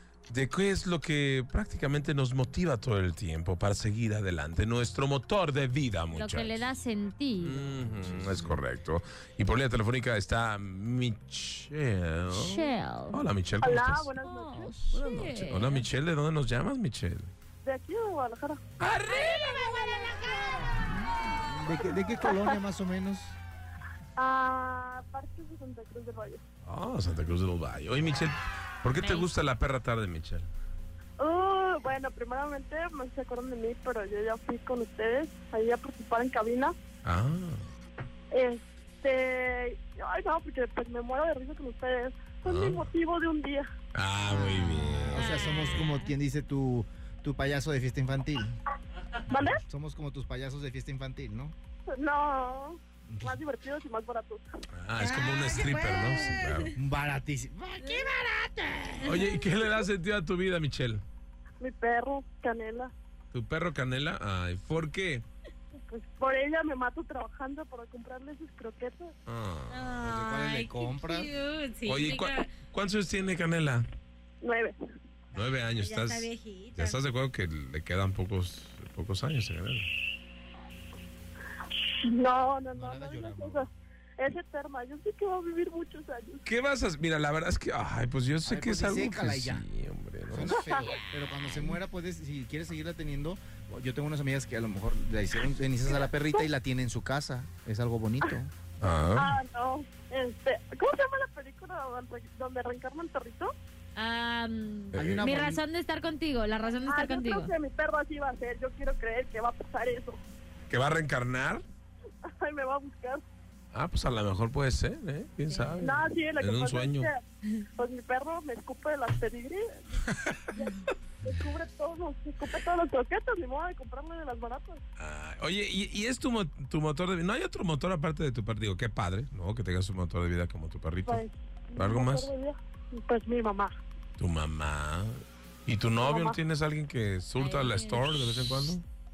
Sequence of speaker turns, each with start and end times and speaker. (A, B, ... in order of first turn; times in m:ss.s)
0:00.3-0:06.6 A
0:06.1-0:07.6 B
0:07.4-0:14.1 A
0:12.3-0:13.2 B
0:13.6-0:14.8 C
0:14.2-0:15.9 B
0:14.7-0:17.3 A
0:17.6-0:18.6 C
0:18.8-0:19.7 A
0:19.0-0:20.9 B
0:21.2-0:23.4 D
0:22.2-0:22.6 C
0:24.2-0:26.4 C
0:26.6-0:30.5 A
0:29.0-0:29.3 B
0:31.2-0:36.8 C
0:37.0-0:37.7 A
0:38.3-0:43.7 C
0:42.4-0:42.9 A
0:43.9-0:45.8 A
0:44.2-0:48.6 D
0:45.1-0:46.1 B
0:49.3-0:49.6 C
0:49.5-0:51.6 D
0:51.9-0:54.4 C
0:53.1-0:53.4 D
0:54.7-0:56.7 A
0:55.0-0:56.7 B
0:56.8-0:59.1 D
0:57.8-0:59.4 B
0:59.0-1:01.0 A
1:01.6-1:02.9 C
1:03.3-1:05.2 A
1:05.8-1:09.1 C
1:09.3-1:09.9 A
1:09.7-1:12.5 B
1:10.0-1:11.3 D
1:11.9-1:13.9 A
1:14.4-1:14.8 C
1:15.3-1:19.9 A
1:15.8-1:17.0 B
1:21.8-1:26.4 C
1:22.7-1:23.7 D
1:26.4-1:30.6 A
1:28.4-1:29.7 D
1:30.3-1:38.5 D
1:30.5-1:30.9 C
1:30.8-1:31.8 B
1:35.9-1:36.4 C
1:38.8-1:39.4 A
1:39.2-1:43.5 C
1:44.0-1:47.5 B
1:44.9-1:45.6 D
1:44.9-1:45.4 A
1:46.9-1:50.2 C
1:50.7-1:51.6 A
1:52.2-1:53.2 C
1:53.7-1:57.1 A
1:55.5-1:55.9 B
1:55.8-1:57.2 C
1:57.8-2:04.8 C
2:00.1-2:00.5 A
2:05.0-2:11.2 A
2:11.1-2:13.7 C
2:11.8-2:12.3 A
2:14.2-2:18.8 A
2:16.0-2:16.4 C
2:17.4-2:18.0 B